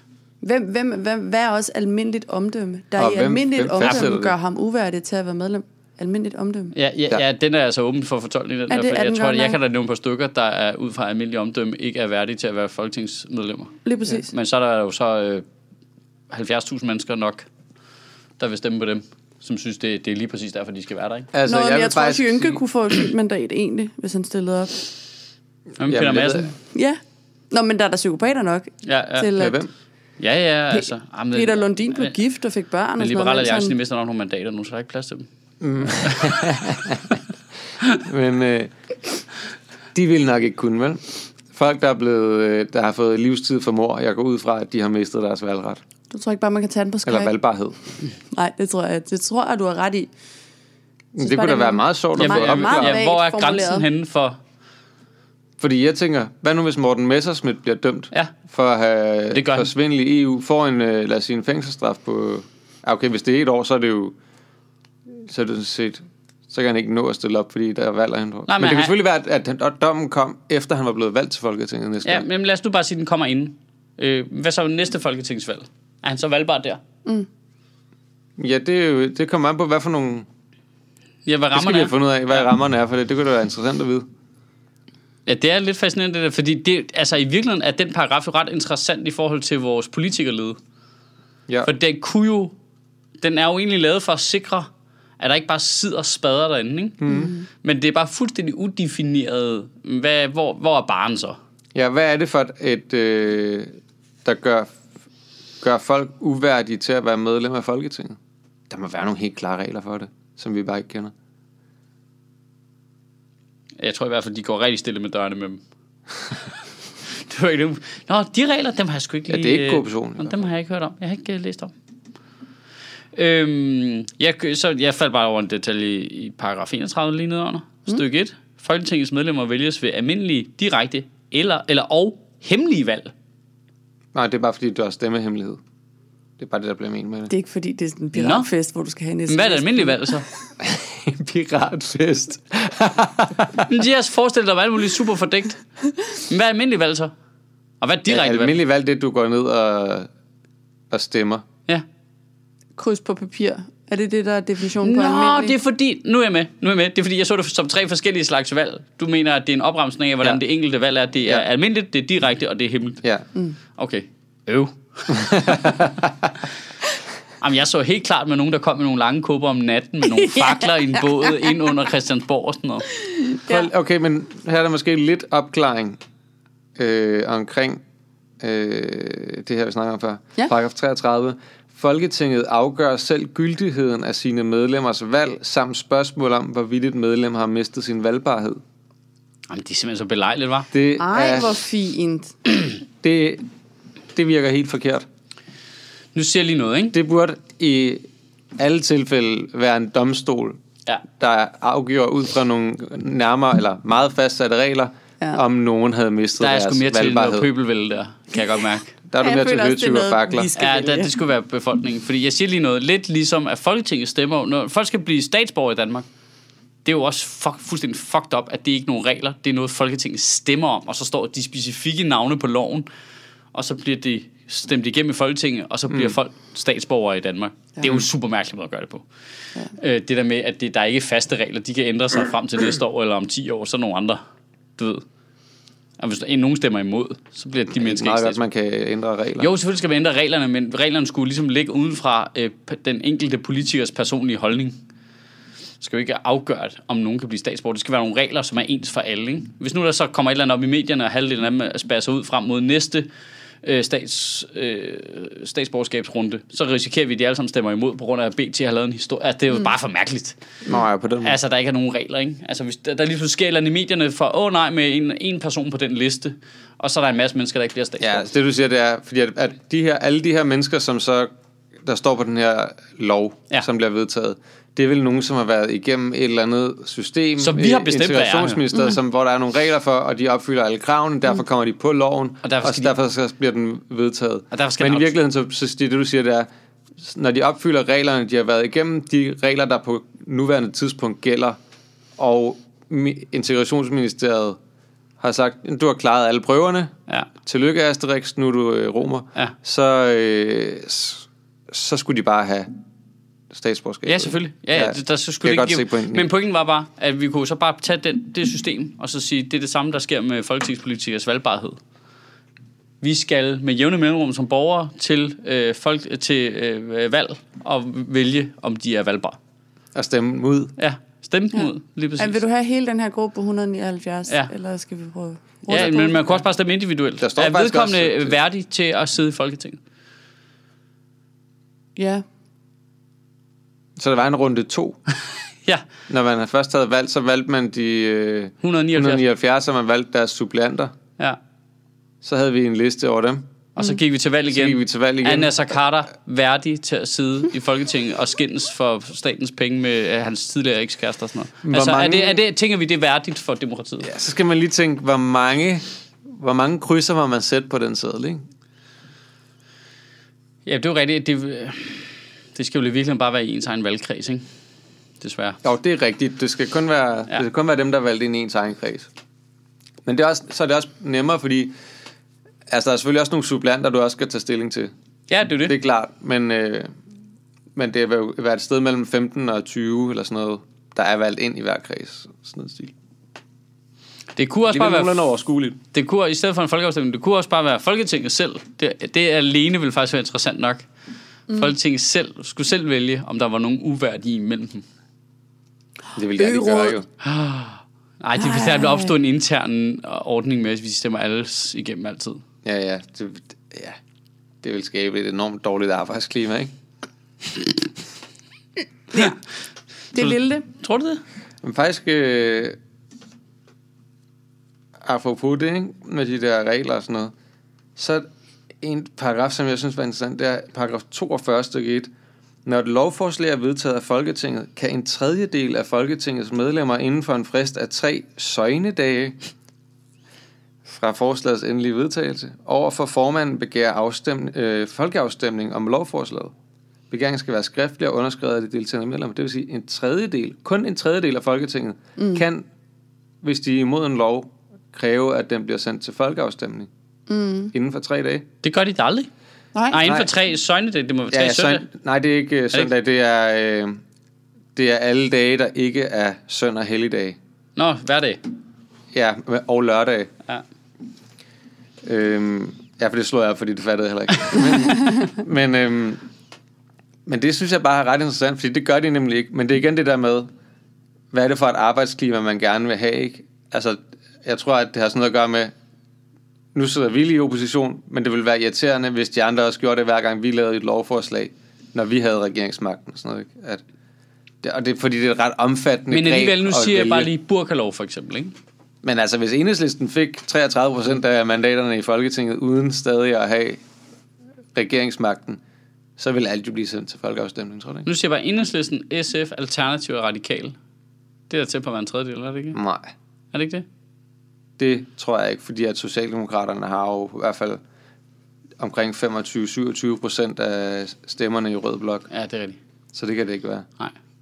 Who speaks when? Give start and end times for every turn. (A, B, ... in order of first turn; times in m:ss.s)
0:00.4-0:06.7 A
0:03.0-0:04.3 B
0:06.7-0:13.7 C
0:08.7-0:09.6 A
0:13.8-0:14.3 A
0:14.3-0:15.4 C
0:16.3-0:17.5 C
0:18.4-0:21.3 C
0:21.3-0:22.6 B
0:21.5-0:24.8 A
0:25.8-0:26.5 C
0:25.8-0:26.5 B
0:26.7-0:27.0 A
0:27.5-0:29.6 A
0:28.8-0:29.3 C
0:29.4-0:29.7 B
0:30.2-0:32.1 C
0:30.7-0:33.7 A
0:33.0-0:35.3 C
0:35.6-0:37.2 B
0:36.0-0:36.6 C
0:38.0-0:38.7 B
0:39.9-0:45.8 B
0:46.1-0:47.3 A
0:47.0-0:47.8 B
0:48.3-0:50.1 A
0:51.1-0:53.0 B
0:51.2-0:53.8 A
0:52.2-0:54.4 C
0:55.6-1:04.2 B
0:59.3-0:59.7 C
1:05.2-1:12.2 B
1:08.5-1:08.9 C
1:12.0-1:16.8 C
1:18.4-1:20.3 B
1:21.2-1:22.4 C
1:21.5-1:24.0 B
1:25.2-1:30.6 C
1:31.6-1:32.5 C
1:33.2-1:34.7 C
1:35.2-1:37.0 C
1:37.0-1:37.3 B
1:37.1-1:37.4 A
1:37.6-1:41.4 C
1:41.7-1:44.7 B
1:45.6-1:48.2 B
1:48.7-1:51.1 B
1:53.8-1:55.6 C
1:57.1-2:01.7 C
1:59.3-2:00.5 B
2:03.1-2:13.1 C
2:14.1-2:15.6 B
2:16.4-2:17.3 B
2:17.3-2:20.2 A
2:18.1-2:18.5 C
2:19.3-2:20.2 C
2:20.6-2:23.7 B
2:23.7-2:25.6 C
2:26.2-2:27.1 C
2:27.8-2:28.5 C
2:28.1-2:30.1 B
2:30.9-2:31.4 B
2:32.8-2:35.6 A
2:34.8-2:43.0 C
2:43.7-2:45.8 C
2:45.1-2:46.2 B
2:47.4-2:52.9 C
2:50.1-2:51.5 A
2:53.0-2:53.7 A
2:53.4-2:56.0 B
2:56.8-2:57.8 B
2:58.4-3:08.6 B
3:09.5-3:10.7 C
3:10.7-3:11.6 B
3:11.0-3:12.3 A
3:13.0-3:13.4 B
3:14.1-3:15.0 B
3:16.1-3:17.0 C
3:16.9-3:20.6 B
3:21.1-3:27.5 B
3:26.4-3:28.9 C
3:29.1-3:30.5 B
3:29.2-3:31.1 A
3:30.6-3:36.1 C
3:36.8-3:42.9 C
3:43.5-3:49.0 C
3:45.9-3:46.1 B
3:49.7-3:54.2 C
3:54.8-3:55.0 C
3:56.0-3:58.4 C
3:57.7-3:59.5 B
3:59.4-4:04.8 C
4:05.8-4:13.1 C
4:13.6-4:20.4 C
4:20.6-4:21.4 B
4:21.2-4:28.3 C
4:28.0-4:31.3 B
4:31.8-4:46.5 B
4:37.4-4:38.7 C
4:42.4-4:42.9 C
4:44.5-4:45.1 C
4:47.0-4:51.6 B
4:52.2-4:54.6 B
4:55.2-5:02.7 B
5:03.5-5:06.3 B
5:04.0-5:11.8 C
5:13.0-5:19.4 C
5:19.9-5:20.7 B
5:20.8-5:22.4 C
5:21.5-5:26.4 A
5:25.7-5:29.8 C
5:27.2-5:28.4 B
5:32.0-5:32.2 A
5:34.0-5:35.0 B
5:36.1-5:40.9 B
5:38.6-5:39.2 C
5:42.2-5:43.4 B
5:43.8-5:54.1 C
5:44.5-5:45.5 B
5:51.6-5:52.4 B
5:54.0-5:58.4 B
6:00.6-6:04.4 C
6:05.2-6:05.6 C
6:05.6-6:09.1 B
6:10.0-6:11.7 B
6:12.7-6:14.9 B
6:15.3-6:15.7 C
6:15.6-6:16.9 B
6:17.8-6:22.9 B
6:24.4-6:25.2 C
6:24.7-6:25.8 B
6:25.9-6:30.9 C
6:31.6-6:34.8 C
6:36.1-6:37.0 B
6:36.4-6:37.0 A
6:37.2-6:42.4 C
6:38.4-6:39.1 A
6:42.6-6:44.0 B
6:44.6-6:46.7 B
6:50.1-6:50.6 A
6:50.1-6:51.2 C
6:51.6-6:52.8 B
6:55.0-6:57.3 B
6:58.0-6:58.3 B
6:58.8-7:02.1 B
7:02.6-7:09.4 B
7:10.8-7:16.5 B
7:17.1-7:22.6 B
7:22.2-7:22.4 A
7:23.4-7:26.9 B
7:27.3-7:27.7 A
7:27.7-7:28.4 B
7:28.6-7:29.3 C
7:29.9-7:31.8 C
7:30.0-7:30.3 B
7:31.3-7:34.0 B
7:34.8-7:37.4 B
7:37.8-7:38.4 C
7:39.1-7:40.3 B
7:42.0-7:46.2 B
7:47.3-7:50.5 B
7:51.3-7:55.7 B
7:56.7-8:03.8 B
8:04.6-8:07.3 B
8:06.1-8:08.5 C
8:09.0-8:13.8 B
8:14.7-8:15.6 B
8:16.2-8:18.1 B
8:18.0-8:20.8 C
8:21.5-8:22.8 C
8:22.7-8:23.1 B
8:23.5-8:23.8 C
8:24.8-8:27.8 B
8:28.8-8:32.3 B
8:32.3-8:32.8 C
8:33.1-8:33.8 B